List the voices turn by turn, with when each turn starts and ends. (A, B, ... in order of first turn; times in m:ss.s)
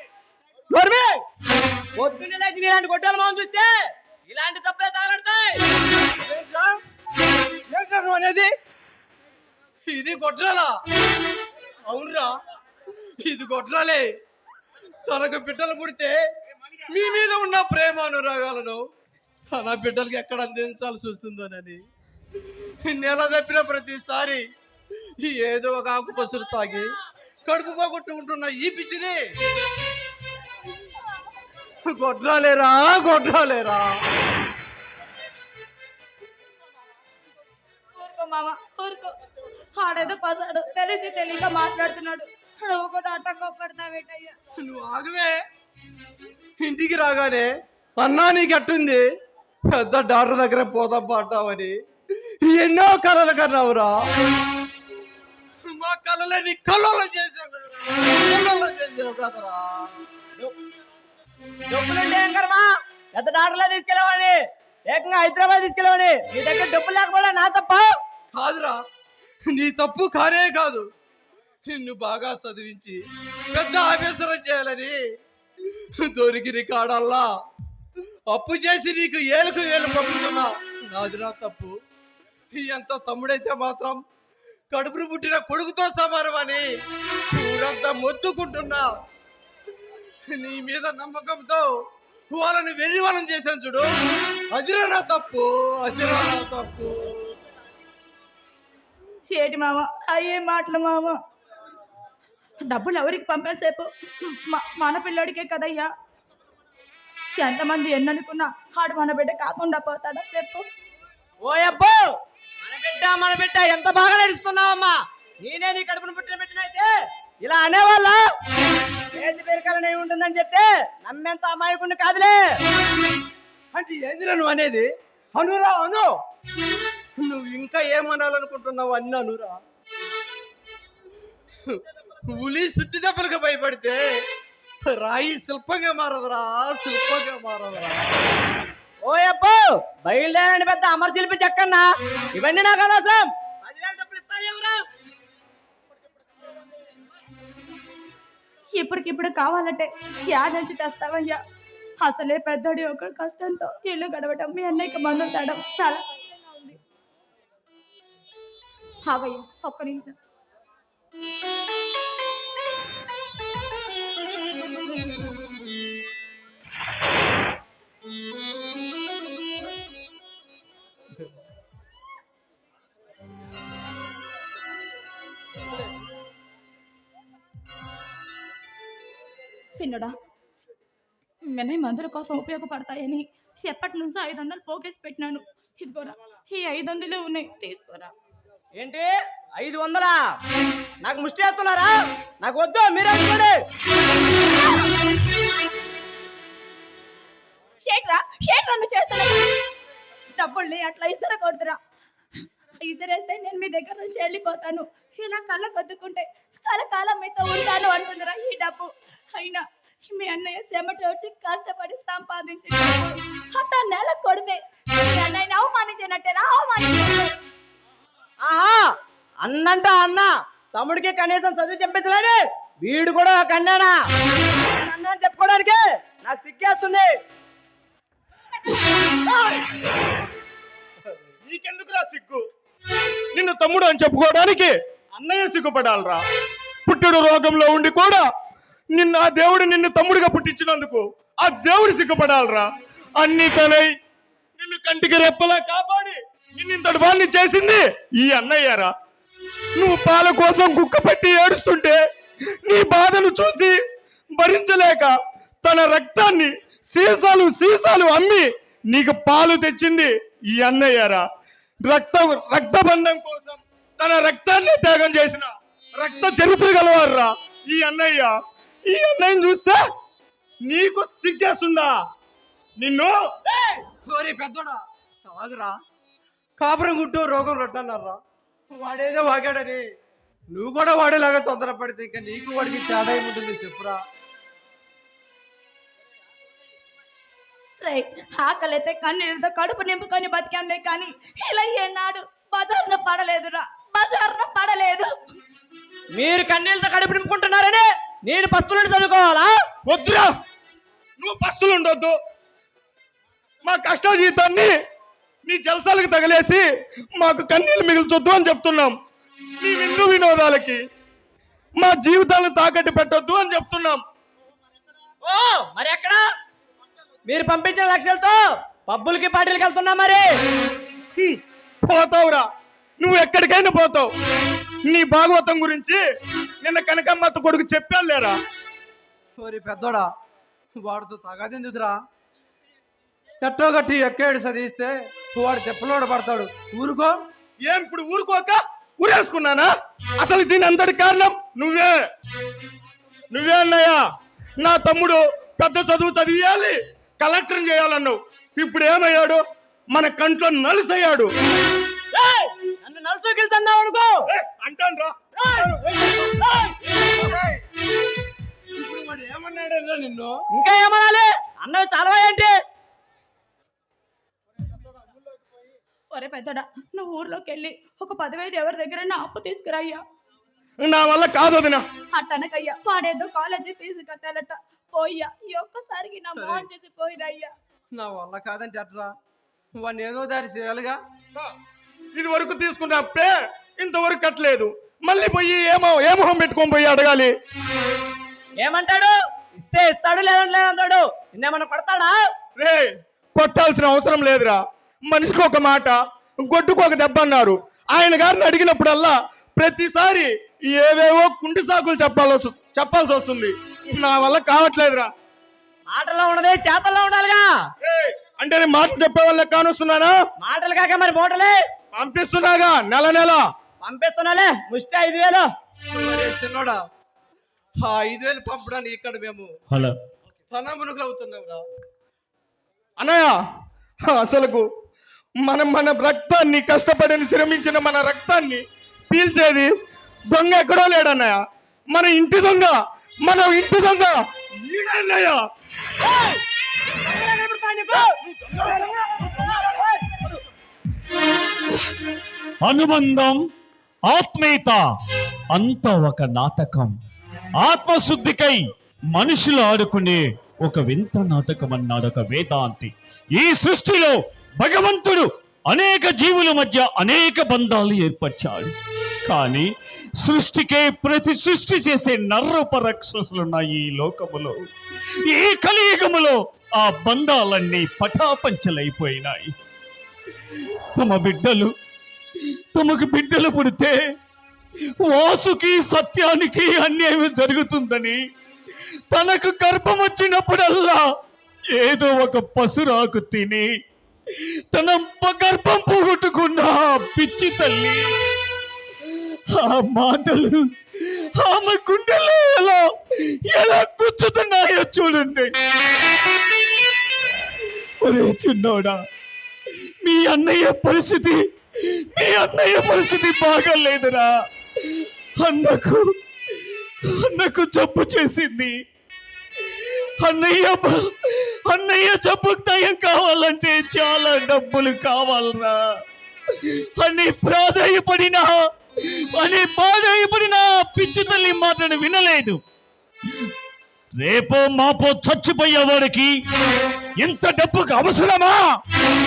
0:00.7-0:01.2 A
0:02.0-0:03.7 A
0:04.3-0:05.6 A
0:06.2-0:06.8 B
0:07.7-0:08.5 B
0:09.9-0:10.7 B
0:11.9-0:12.3 B
0:13.2-0:14.0 B
0:15.0-0:16.2 B
0:16.9-0:18.8 B
0:19.5-0:21.8 B
0:22.8-0:24.4 B
0:25.2-0:26.9 B
0:27.4-0:29.2 B
0:31.9-0:34.0 B
0:38.0-0:39.1 C
0:39.8-0:44.4 C
0:44.6-0:45.4 B
0:46.6-0:49.0 B
0:49.7-0:51.7 B
0:52.4-0:54.0 B
0:55.7-1:00.0 B
1:01.7-1:07.9 A
1:08.3-1:08.8 B
1:09.5-1:10.8 B
1:11.7-1:13.0 B
1:13.5-1:15.0 B
1:16.0-1:17.3 B
1:18.3-1:21.7 B
1:22.5-1:24.0 B
1:24.7-1:26.6 B
1:27.3-1:28.9 B
1:30.3-1:31.7 B
1:32.3-1:33.9 B
1:34.5-1:37.3 B
1:39.2-1:41.2 C
1:42.6-1:45.9 C
1:47.3-1:50.6 C
1:51.4-1:52.0 A
1:52.6-1:56.9 A
1:57.4-1:58.2 A
1:59.1-2:02.6 A
2:03.7-2:06.1 B
2:07.2-2:09.6 B
2:11.6-2:14.0 B
2:14.8-2:18.4 B
2:19.0-2:24.8 A
2:28.7-2:31.4 C
2:32.0-2:36.8 C
2:39.0-2:40.2 C
2:59.8-3:00.1 C
3:01.4-3:08.1 C
3:08.8-3:10.2 A
3:11.0-3:13.6 A
3:17.8-3:19.5 C
3:20.4-3:21.8 C
3:22.8-3:37.3 C
3:38.4-3:44.0 A
3:44.6-3:47.1 A
3:51.4-3:52.4 D
3:53.3-3:56.2 D
3:56.9-3:58.2 D
3:58.9-4:02.7 D
4:03.2-4:03.9 D
4:04.6-4:08.9 D
4:09.8-4:12.0 D
4:12.6-4:13.8 D
4:14.4-4:21.2 D
4:21.9-4:28.3 D
4:28.9-4:29.8 D
4:30.6-4:32.0 D
4:32.8-4:33.2 D
4:33.5-4:33.8 A
4:34.0-4:35.7 B
4:36.6-4:38.2 B
4:38.8-4:39.8 B
4:40.5-4:44.0 B
4:47.8-4:55.1 C
4:56.2-4:59.5 A
4:59.8-5:00.3 D
5:01.2-5:02.1 D
5:03.6-5:04.7 D
5:05.4-5:06.6 D
5:07.2-5:09.0 D
5:09.6-5:10.8 D
5:11.8-5:14.0 D
5:15.2-5:16.2 A
5:17.3-5:20.3 A
5:21.2-5:22.5 D
5:23.0-5:24.1 D
5:24.8-5:26.0 D
5:26.6-5:28.4 D
5:29.4-5:30.1 B
5:30.8-5:31.9 B
5:33.4-5:37.2 B
5:37.7-5:42.0 D
5:43.3-5:44.0 D
5:44.6-5:51.3 D
5:52.1-5:54.2 A
5:54.3-5:55.2 D
5:55.4-5:56.7 A
5:56.9-5:57.6 B
5:58.8-6:00.4 B
6:00.5-6:02.5 A
6:06.1-6:10.0 C
6:10.8-6:11.8 D
6:12.1-6:17.5 C
6:16.4-6:16.6 B
6:18.0-6:19.1 B
6:19.8-6:21.0 B
6:22.2-6:27.3 D
6:28.6-6:32.2 A
6:32.6-6:45.1 D
6:45.9-6:47.5 A
6:47.8-6:50.2 D
6:50.4-6:51.6 A
6:51.9-6:53.4 D
6:53.8-6:55.5 A
6:55.9-6:56.8 B
6:57.8-6:59.5 B
6:59.7-7:00.0 E
7:00.5-7:01.6 B
7:03.0-7:03.3 D
7:04.1-7:04.6 D
7:05.4-7:09.7 D
7:10.3-7:11.4 D
7:11.9-7:15.4 D
7:16.0-7:16.4 A
7:17.0-7:18.1 A
7:18.3-7:19.3 D
7:18.6-7:20.2 A
7:22.6-7:23.4 E
7:24.0-7:24.8 E
7:25.5-7:26.9 E
7:27.6-7:38.7 E
7:39.2-7:39.7 E
7:40.2-7:44.5 E
7:45.2-7:49.5 E
7:50.5-7:51.7 E
7:52.4-7:54.0 E
7:55.0-7:58.2 E
7:59.1-8:01.0 E
8:01.7-8:03.7 E
8:04.3-8:08.0 E
8:09.0-8:15.5 E
8:18.0-8:19.0 E
8:20.0-8:28.7 E
8:29.6-8:35.8 E
8:36.5-8:42.6 E
8:44.2-8:46.3 E
8:47.2-8:48.6 E